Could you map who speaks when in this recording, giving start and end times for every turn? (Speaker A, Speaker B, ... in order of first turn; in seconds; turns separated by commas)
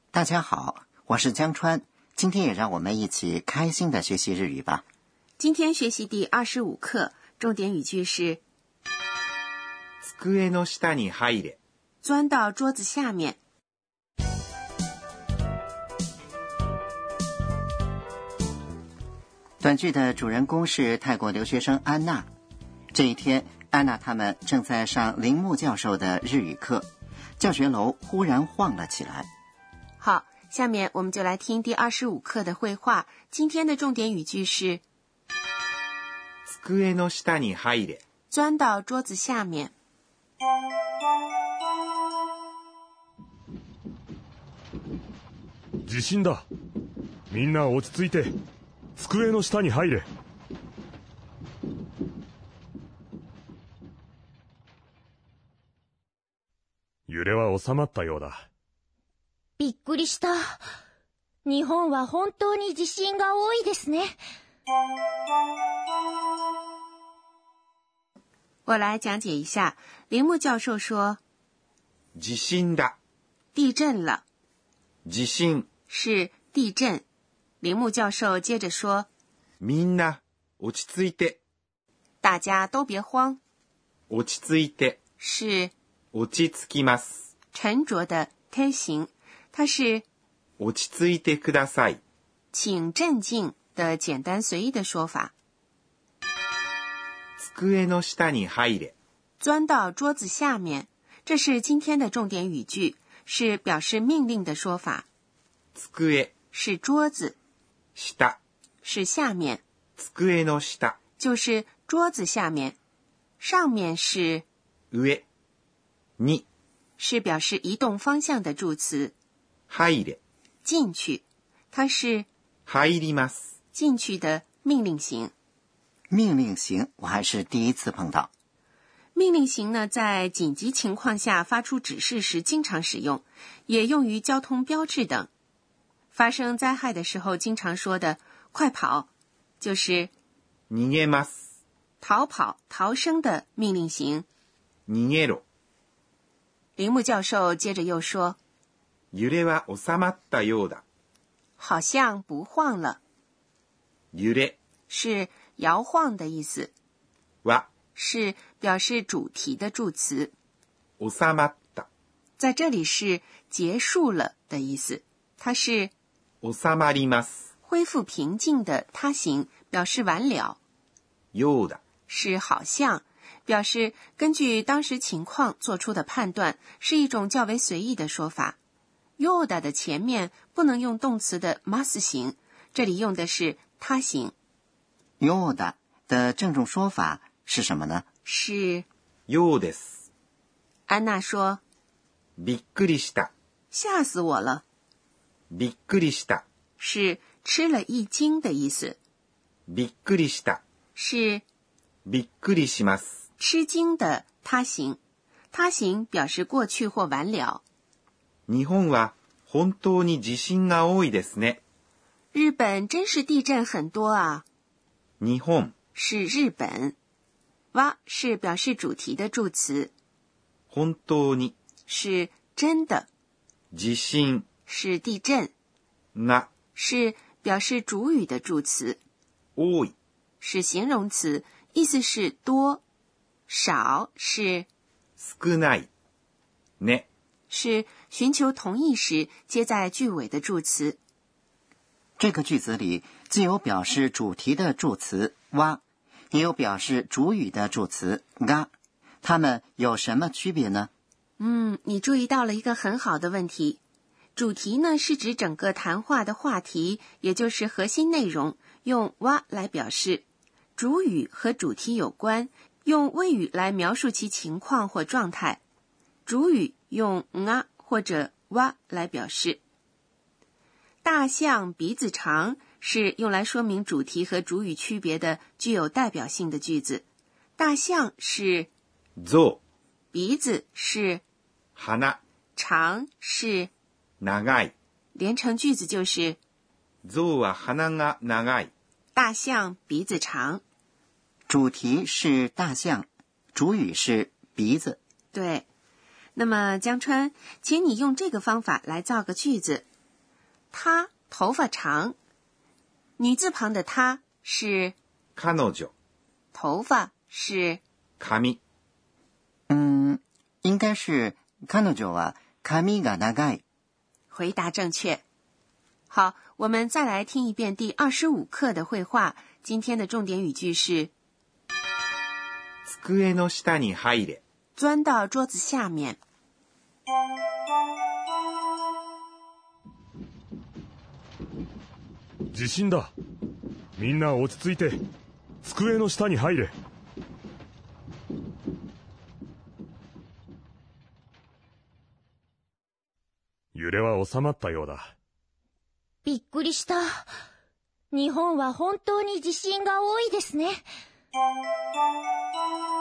Speaker A: 0.1-4.8, Speaker B: 5.4-8.4, Speaker C: 10.0-11.6, Speaker B: 12.0-13.4, Speaker A: 19.6-22.3, Speaker A: 22.9-26.9, Speaker A: 27.4-29.3, Speaker B: 30.0-34.8, Speaker C: 36.5-38.0, Speaker B: 38.3-39.7, Speaker D: 45.8-46.4, Speaker D: 47.3-48.3, Speaker D: 49.0-50.1, Speaker D: 57.1-58.4, Speaker E: 59.6-60.6, Speaker E: 61.4-64.1, Speaker B: 68.7-71.2, Speaker C: 72.1-73.0, Speaker B: 73.5-74.2, Speaker C: 75.0-75.7, Speaker B: 75.9-77.0, Speaker B: 77.6-79.1, Speaker C: 79.6-81.4, Speaker B: 82.2-83.4, Speaker C: 84.1-85.0, Speaker B: 85.2-85.7, Speaker C: 86.1-87.2, Speaker B: 87.5-90.0, Speaker C: 90.6-92.0, Speaker B: 92.5-95.3, Speaker C: 97.4-98.9, Speaker B: 99.4-105.0, Speaker C: 105.7-106.3, Speaker B: 106.5-107.3, Speaker C: 108.0-108.4, Speaker B: 108.8-109.6, Speaker C: 110.0-111.0, Speaker B: 111.2-112.8, Speaker B: 113.4-114.4, Speaker C: 114.9-115.2, Speaker C: 116.2-116.5, Speaker B: 117.0-119.1, Speaker C: 119.7-120.2, Speaker B: 120.6-122.3, Speaker C: 122.7-123.5, Speaker B: 123.7-125.3, Speaker A: 126.1-128.3, Speaker B: 129.1-135.3, Speaker B: 136.1-140.1, Speaker C: 140.7-141.4, Speaker B: 142.0-144.2, Speaker C: 144.9-145.4, Speaker B: 146.8-148.4, Speaker C: 149.1-150.8, Speaker B: 151.6-153.0, Speaker C: 154.1-154.6, Speaker B: 154.9-156.7, Speaker C: 157.4-157.7, Speaker B: 157.9-160.3, Speaker C: 161.0-161.9, Speaker B: 162.4-165.9, Speaker C: 166.4-167.4, Speaker B: 167.6-170.6, Speaker C: 171.3-171.8, Speaker B: 172.1-178.6, Speaker B: 179.2-184.3, Speaker A: 185.2-188.1, Speaker B: 188.2-188.8, Speaker C: 189.3-190.0, Speaker B: 190.9-191.6, Speaker C: 192.4-193.3, Speaker B: 193.7-194.6, Speaker C: 195.5-196.4, Speaker B: 196.8-199.0, Speaker C: 199.7-200.6, Speaker B: 200.9-201.4, Speaker C: 202.1-203.2, Speaker B: 203.4-205.0, Speaker B: 205.5-207.6, Speaker C: 208.5-211.6, Speaker B: 212.3-214.4, Speaker C: 215.2-215.7, Speaker B: 215.9-216.9, Speaker B: 217.7-219.9, Speaker C: 220.7-221.5, Speaker B: 221.9-223.1, Speaker C: 223.7-224.5, Speaker B: 224.7-225.5, Speaker C: 226.1-226.5, Speaker B: 226.7-229.0, Speaker C: 229.6-229.9, Speaker B: 230.4-232.8, Speaker B: 233.5-234.7, Speaker C: 235.2-235.9, Speaker C: 236.8-237.1, Speaker B: 237.5-241.0, Speaker A: 242.2-250.9, Speaker B: 251.4-253.8, Speaker B: 254.3-260.2, Speaker B: 260.8-265.6, Speaker B: 266.2-269.6, Speaker B: 271.0-277.0, Speaker B: 277.6-278.7, Speaker C: 279.2-279.6, Speaker B: 280.1-281.2, Speaker C: 281.8-282.2, Speaker B: 282.6-283.7, Speaker C: 284.2-284.7, Speaker B: 285.1-286.4, Speaker C: 287.0-288.7, Speaker B: 289.1-290.6, Speaker A: 291.5-295.0, Speaker B: 295.3-295.6, Speaker B: 296.3-299.8, Speaker B: 300.7-302.1, Speaker B: 303.2-304.9, Speaker C: 305.4-305.9, Speaker B: 306.5-307.8, Speaker C: 308.2-308.6, Speaker A: 309.7-313.6, Speaker B: 314.3-315.2, Speaker B: 316.1-321.1, Speaker C: 322.9-324.4, Speaker B: 324.8-326.2, Speaker D: 332.5-333.1, Speaker D: 334.0-335.0, Speaker D: 335.6-336.7, Speaker D: 343.7-345.1, Speaker E: 346.2-347.2, Speaker E: 348.1-350.8